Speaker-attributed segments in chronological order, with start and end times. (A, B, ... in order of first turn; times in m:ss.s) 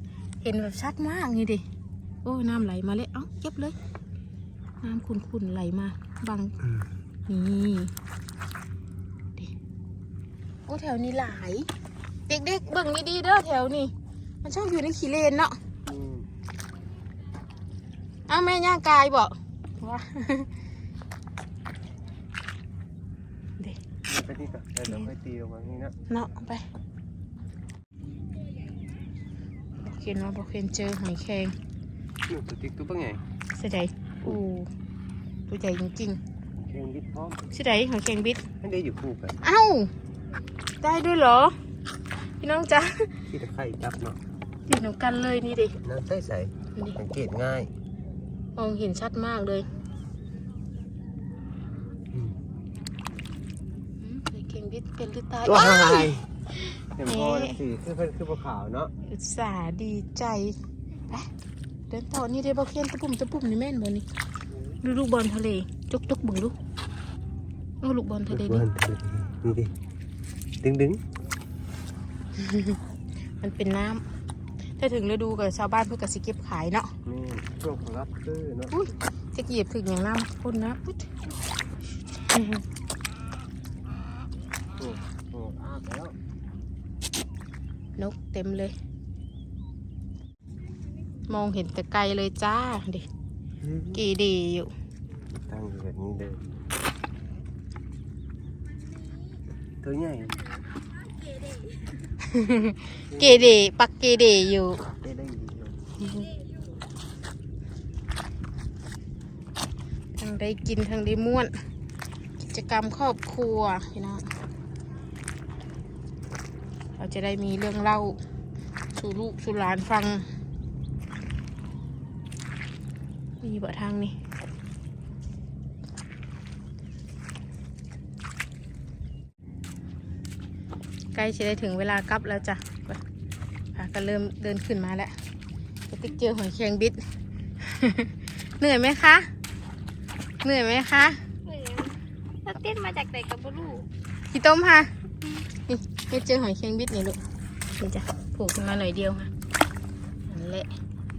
0:00.4-0:01.6 A
0:02.2-0:03.8 A
0:04.8-0:06.6 A
0:07.3-0:07.9 A
0:10.7-0:11.7 A
0:12.3-0:13.9 A
0:14.4-0:15.6 A
0:15.9-0:16.3 B
0:18.3-0:20.5 A
0:24.1-0:26.0 B
0:26.1-0:26.6 A
0:29.8-0:31.5 A
0:32.3-0:33.2 B
0:33.6-0:34.7 A
0:35.5-0:36.2 A
0:36.6-0:37.5 B
0:37.5-0:38.4 A
0:38.6-0:39.4 B
0:39.4-0:39.9 A
0:40.8-0:41.6 A
0:42.4-0:43.1 A
0:43.3-0:44.2 B
0:44.7-0:45.8 A
0:45.8-0:47.7 B
0:48.6-0:49.7 A
0:54.0-0:56.1 A
0:55.4-0:56.3 B
0:57.0-0:58.9 B
0:57.1-0:57.6 A
0:59.0-1:00.6 A
1:01.9-1:04.1 A
1:04.8-1:06.6 A
1:07.8-1:08.7 A
1:08.3-1:09.7 B
1:10.6-1:11.0 B
1:12.4-1:12.8 A
1:13.4-1:14.0 A
1:14.8-1:16.9 A
1:17.0-1:18.7 B
1:18.7-1:21.1 A
1:22.3-1:22.6 A
1:24.8-1:26.2 B
1:28.0-1:28.7 A
1:31.3-1:33.0 A
1:33.6-1:34.0 B
1:34.0-1:34.7 A
1:35.3-1:36.4 B
1:39.8-1:40.5 B
1:42.2-1:44.8 A
1:43.1-1:43.6 B
1:44.9-1:46.2 B
1:50.2-1:51.5 A
1:52.4-1:54.3 A
1:57.0-1:58.2 A
1:59.0-2:00.2 A
2:03.4-2:04.1 A
2:11.2-2:13.0 A
2:13.8-2:15.1 A
2:15.9-2:17.0 A
2:17.6-2:19.3 A
2:20.4-2:21.2 A
2:21.5-2:23.9 C
2:24.3-2:24.9 A
2:25.7-2:27.2 A
2:27.8-2:29.3 A
2:30.3-2:30.7 A